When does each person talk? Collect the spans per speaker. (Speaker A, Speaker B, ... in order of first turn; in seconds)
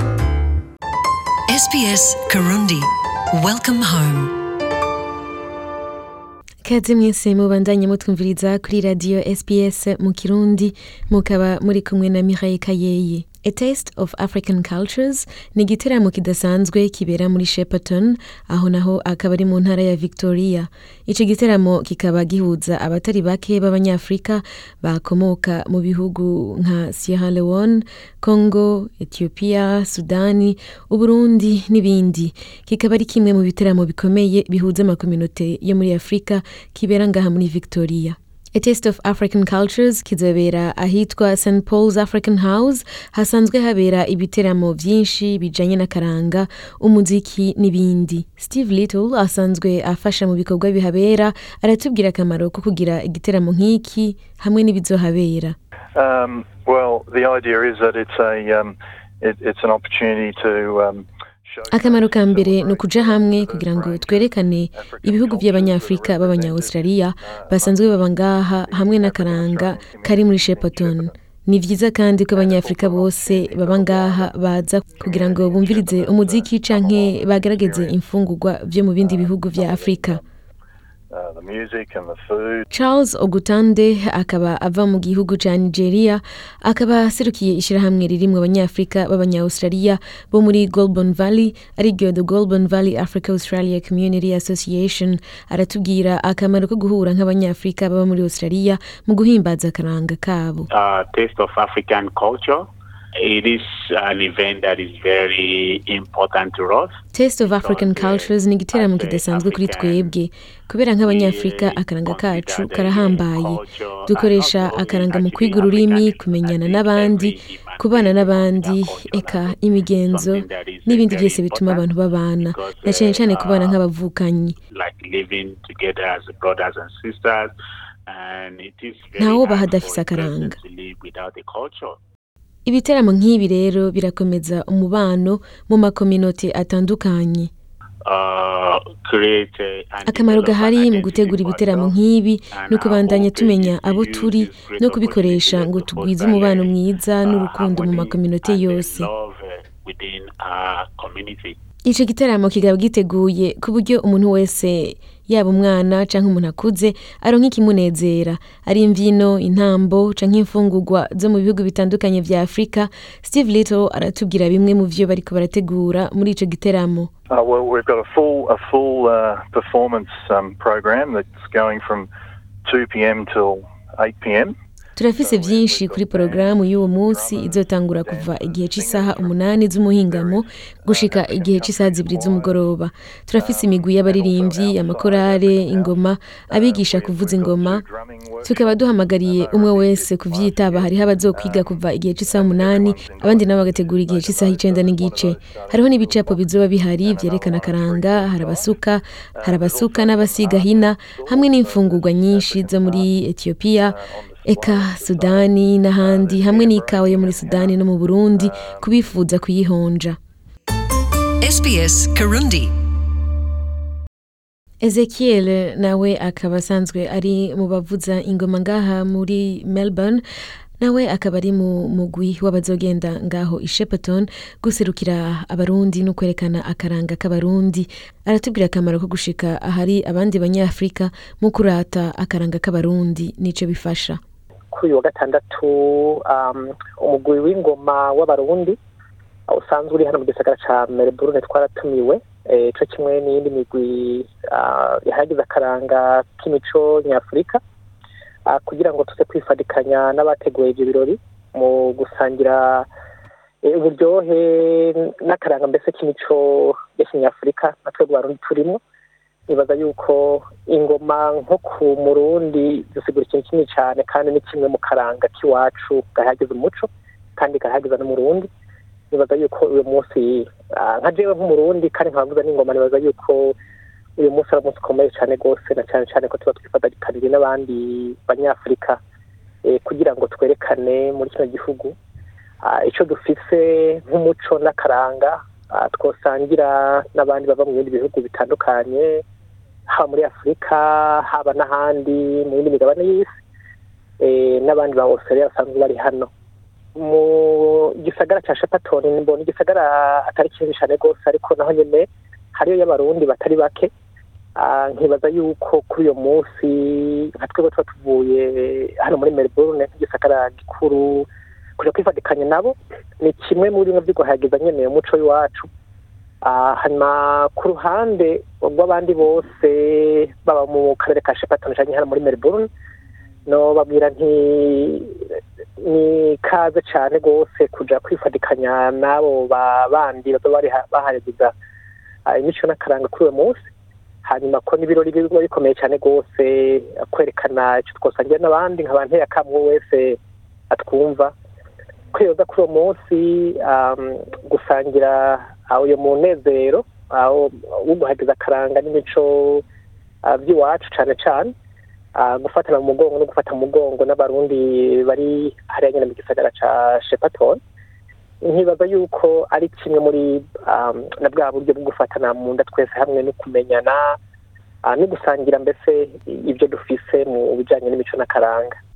Speaker A: 1.5-4.4, 211.4-212.7
Speaker B: 6.6-55.6, 61.7-80.2, 82.7-100.7, 107.1-124.5, 129.2-130.6, 132.7-137.5, 140.1-149.1, 151.8-167.1, 174.9-187.8, 188.4-210.2, 214.8-220.2, 220.8-234.2
Speaker C: 55.9-68.0, 68.7-71.1, 72.3-74.3, 74.9-77.9, 79.0-80.2, 81.1-82.7, 167.3-172.1, 172.6-174.6, 175.2-182.6, 183.4-198.7, 199.3-203.1, 203.8-207.8, 208.4-208.9
Speaker D: 100.7-106.9, 107.5-110.1, 111.0-121.9, 122.4-123.8, 124.7-127.5, 128.1-132.0, 138.0-141.9, 142.5-151.6
Speaker E: 234.7-238.8, 239.5-247.6, 248.4-252.9, 253.6-258.8, 259.5-268.5, 269.1-273.6, 274.2-279.0, 279.6-281.9, 282.6-289.2, 289.9-293.3, 294.2-296.3, 296.9-303.9, 304.6-311.3, 311.8-315.7, 316.4-322.7, 323.4-325.2, 325.8-331.5, 332.2-333.6, 334.2-340.2, 340.7-341.3, 342.1-349.6, 350.2-351.5, 352.1-357.6, 358.4-364.2, 364.8-368.7